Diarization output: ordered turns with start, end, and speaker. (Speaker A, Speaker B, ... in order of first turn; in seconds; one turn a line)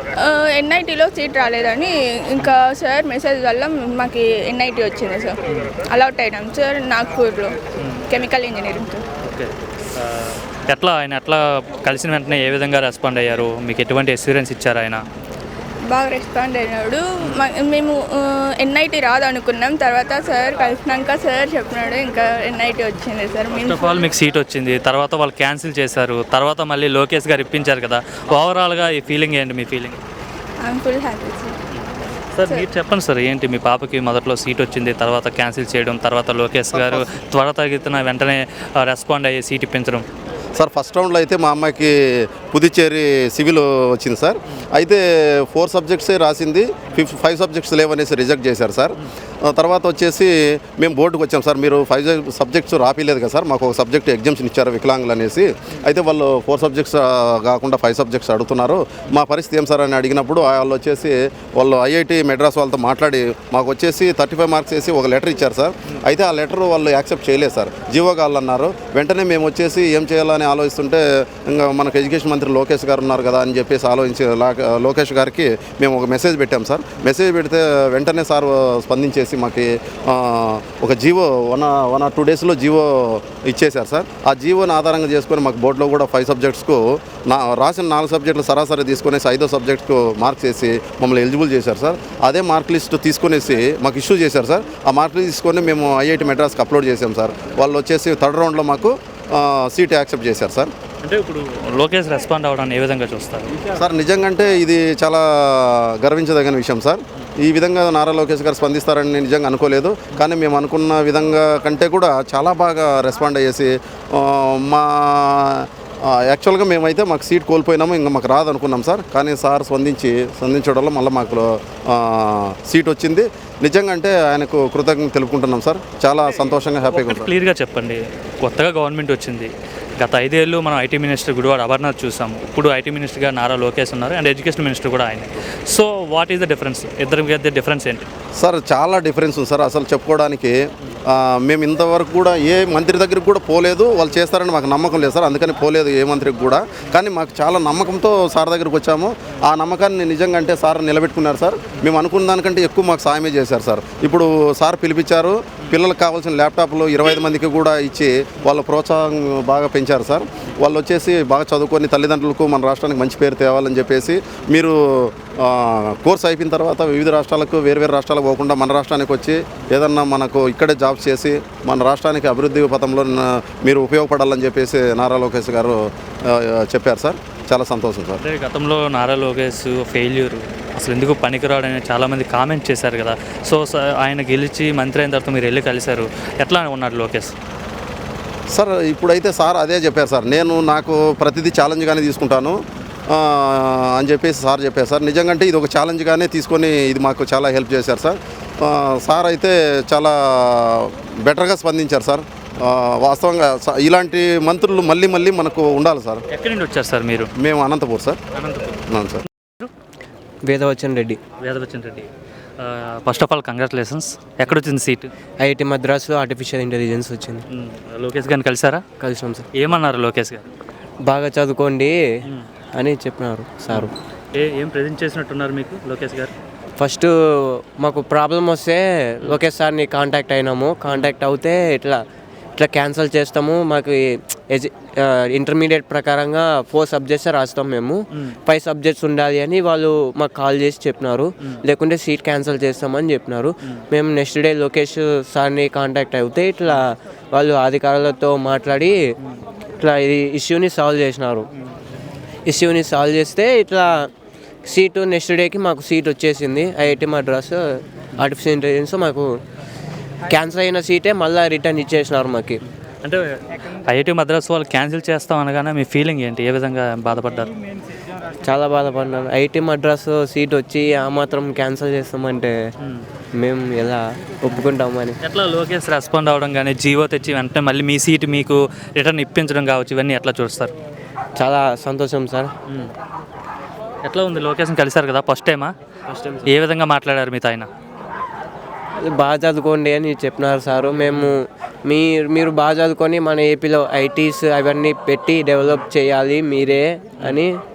Speaker A: 0.2-7.5
Speaker A: 8.1-9.0
Speaker B: 9.2-15.0
Speaker A: 15.9-24.1
Speaker B: 23.5-30.0
Speaker A: 30.6-31.5
Speaker B: 31.7-40.0
Speaker C: 36.7-37.1
Speaker C: 40.6-48.9
Speaker C: 49.5-100.7
Speaker B: 101.0-103.5
Speaker C: 103.8-127.3
Speaker B: 126.9-138.1
Speaker C: 138.4-140.6
Speaker C: 141.1-178.2
Speaker B: 178.2-187.3
Speaker C: 188.5-206.2
Speaker B: 206.3-207.3
Speaker C: 207.4-208.2
Speaker B: 208.3-208.8
Speaker C: 208.9-209.2
Speaker D: 210.5-211.2
Speaker B: 211.4-212.1
Speaker B: 212.6-215.1
Speaker D: 215.4-217.4
Speaker B: 217.5-218.8
Speaker D: 219.0-219.5
Speaker B: 219.6-220.4
Speaker D: 221.1-221.9
Speaker D: 222.8-223.9
Speaker B: 223.7-226.3
Speaker D: 226.8-227.1
Speaker D: 227.8-232.0
Speaker B: 230.9-231.2
Speaker D: 232.6-249.0
Speaker D: 249.8-251.5
Speaker D: 252.5-254.1
Speaker D: 254.7-259.3
Speaker D: 260.3-262.6
Speaker B: 263.9-267.5
Speaker D: 268.4-272.5
Speaker D: 273.4-275.2
Speaker B: 275.2-280.7
Speaker D: 281.4-282.5
Speaker B: 282.7-282.9
Speaker B: 284.0-285.7
Speaker D: 286.1-286.5
Speaker B: 286.4-287.7
Speaker D: 289.1-297.5
Speaker B: 291.1-291.4